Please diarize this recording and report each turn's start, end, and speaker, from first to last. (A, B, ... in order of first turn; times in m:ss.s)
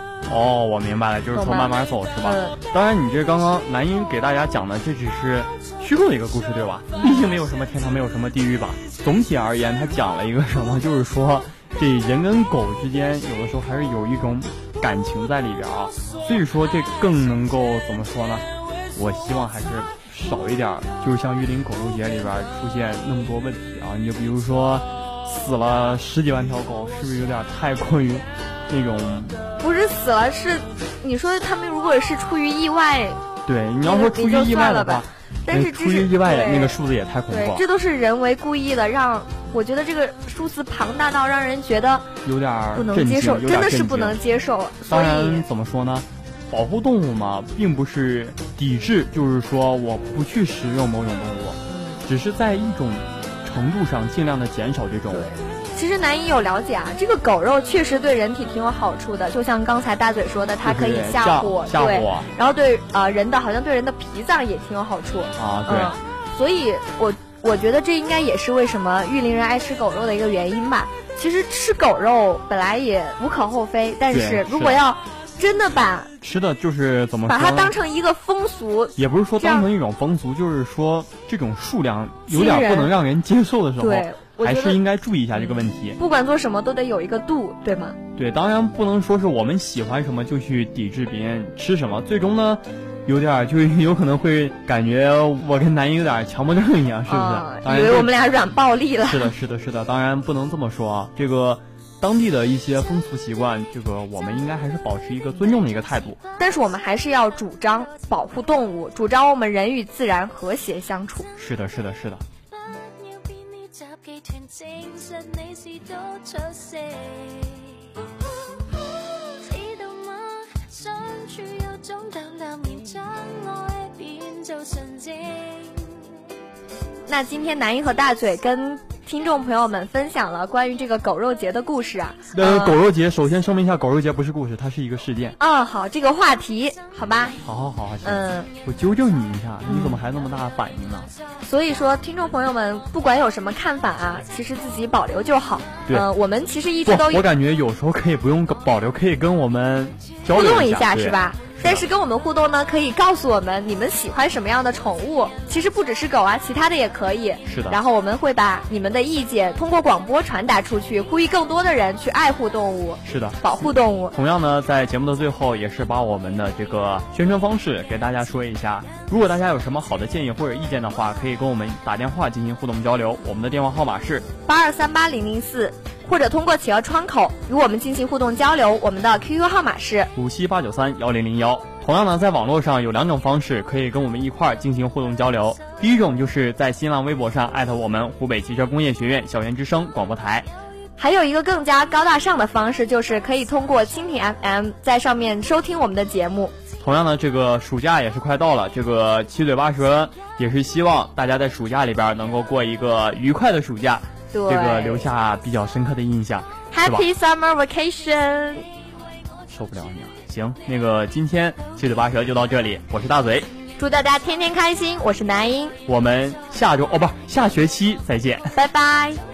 0:00.2-0:29.4 A
0:01.3-0:02.6 B
0:06.9-0:07.2 B
0:29.6-0:33.2 B
0:33.4-0:37.6 A
0:33.8-0:42.1 B
0:42.2-0:44.2 A
0:42.7-0:45.4 B
0:44.9-0:55.3 A
0:51.7-0:52.0 B
0:55.1-1:16.1 B
1:00.6-1:02.3 A
1:05.4-1:06.0 A
1:14.1-1:14.8 A
1:16.2-1:17.8 A
1:17.3-1:19.7 B
1:19.0-1:26.0 A
1:22.3-1:22.9 B
1:23.8-1:24.8 B
1:25.4-1:28.0 B
1:28.2-1:38.1 A
1:37.1-1:39.3 B
1:39.0-1:46.2 A
1:46.4-1:51.3 B
1:51.4-1:52.2 A
1:52.5-1:57.8 C
1:58.4-2:06.0 C
2:07.1-2:12.8 B
2:12.3-2:15.4 A
2:15.4-2:17.4 B
2:17.4-2:21.1 A
2:18.0-2:18.5 B
2:19.7-2:20.0 B
2:21.4-2:27.3 B
2:26.8-2:31.9 A
2:30.3-2:44.2 B
2:37.4-2:37.8 A
2:43.0-2:54.3 A
2:54.4-3:00.1 B
3:00.1-3:10.5 A
3:11.0-3:16.5 B
3:16.8-3:27.1 A
3:24.3-3:25.1 B
3:26.7-3:28.6 B
3:29.5-3:33.5 A
3:33.8-3:35.8 B
3:35.8-3:38.5 A
3:38.5-3:39.2 B